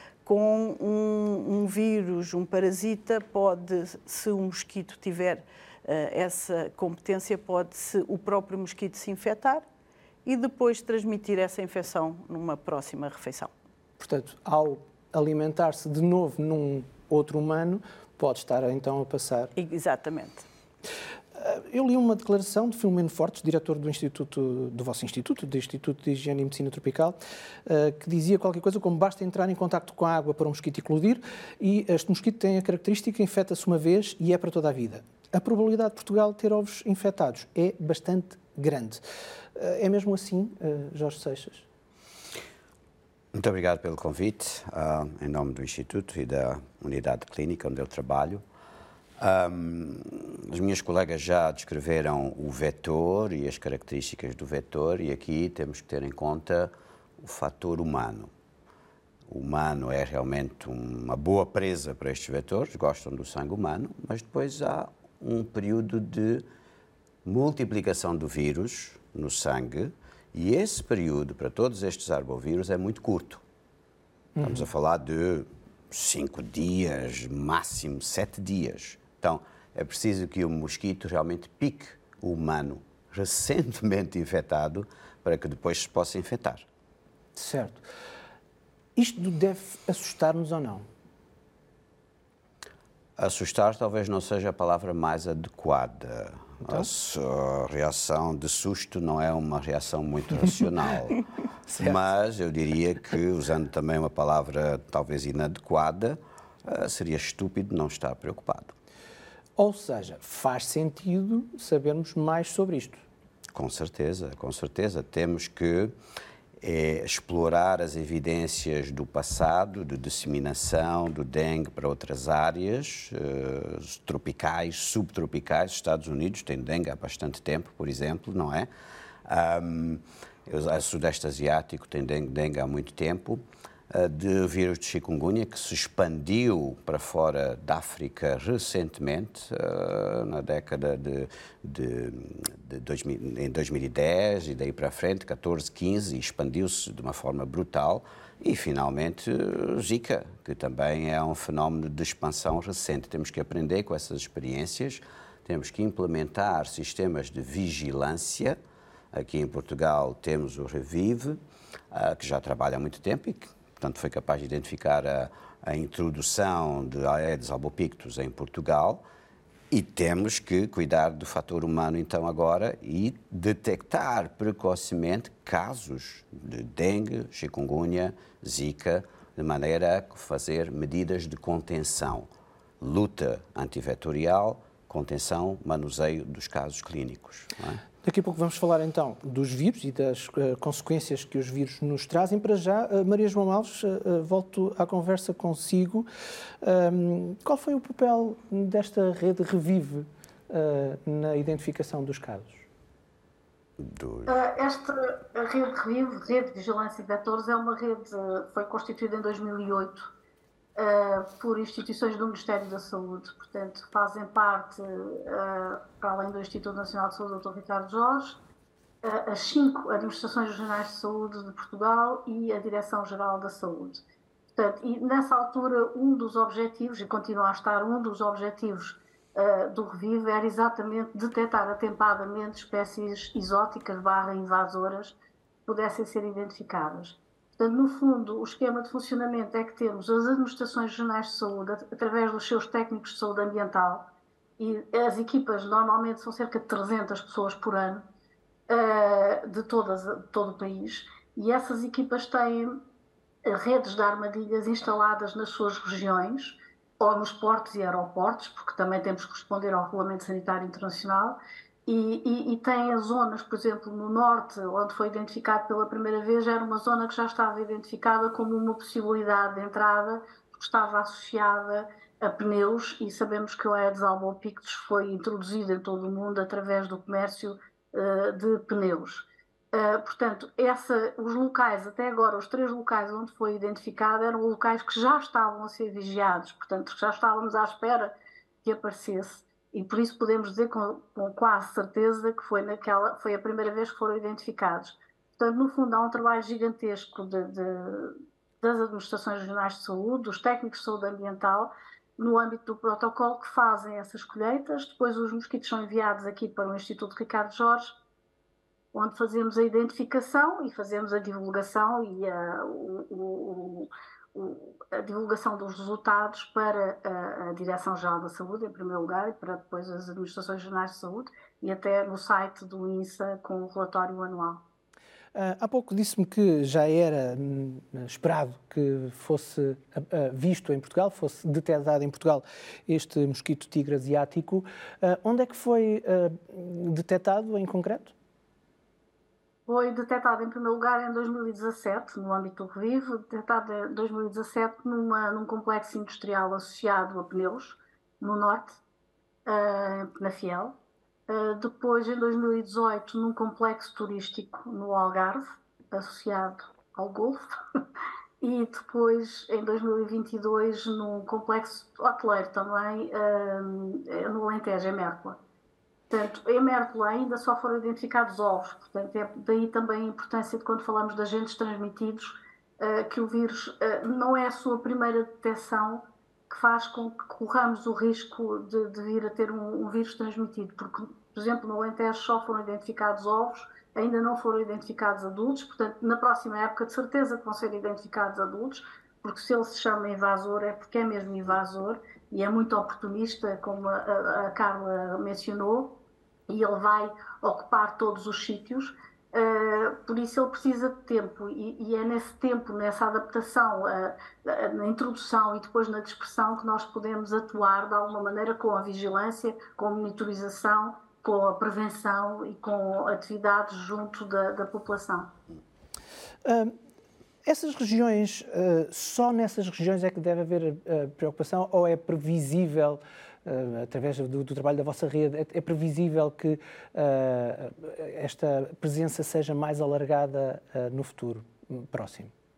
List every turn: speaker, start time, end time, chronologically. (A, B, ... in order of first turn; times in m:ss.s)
0:00.2-0:09.6 A
0:10.2-0:13.5 A
0:14.0-0:19.5 B
0:19.6-0:20.4 A
0:21.3-0:39.0 B
0:39.5-0:41.6 B
0:43.3-0:48.4 C
0:49.2-0:58.3 C
0:59.3-1:06.4 C
1:07.2-1:13.4 C
1:14.4-1:14.6 B
1:14.4-1:26.6 C
1:27.3-1:27.8 B
1:29.0-1:30.8 B
1:33.2-1:41.2 C
1:36.6-1:36.9 B
1:41.7-1:42.0 B
1:41.8-1:48.7 C
1:49.6-1:53.0 B
1:53.5-1:55.9 C
1:56.6-2:08.7 C
2:09.2-2:38.6 C
2:39.1-2:41.4 C
2:41.9-2:49.0 C
2:49.7-3:02.3 C
3:02.8-3:07.8 C
3:08.0-3:16.1 B
3:16.6-3:22.7 B
3:23.8-3:24.4 C
3:24.3-3:30.1 D
3:30.8-3:38.4 D
3:39.0-3:44.0 D
3:44.6-4:08.0 D
4:08.7-4:12.8 D
4:13.4-5:07.9 D
5:08.9-5:24.6 D
5:25.3-5:38.1 B
5:39.7-5:48.8 D
5:49.4-5:50.8 D
5:51.3-5:57.5 D
5:58.4-6:05.4 D
6:06.1-6:36.0 D
6:36.5-6:55.3 D
6:56.4-6:56.7 B
6:57.4-7:12.3 B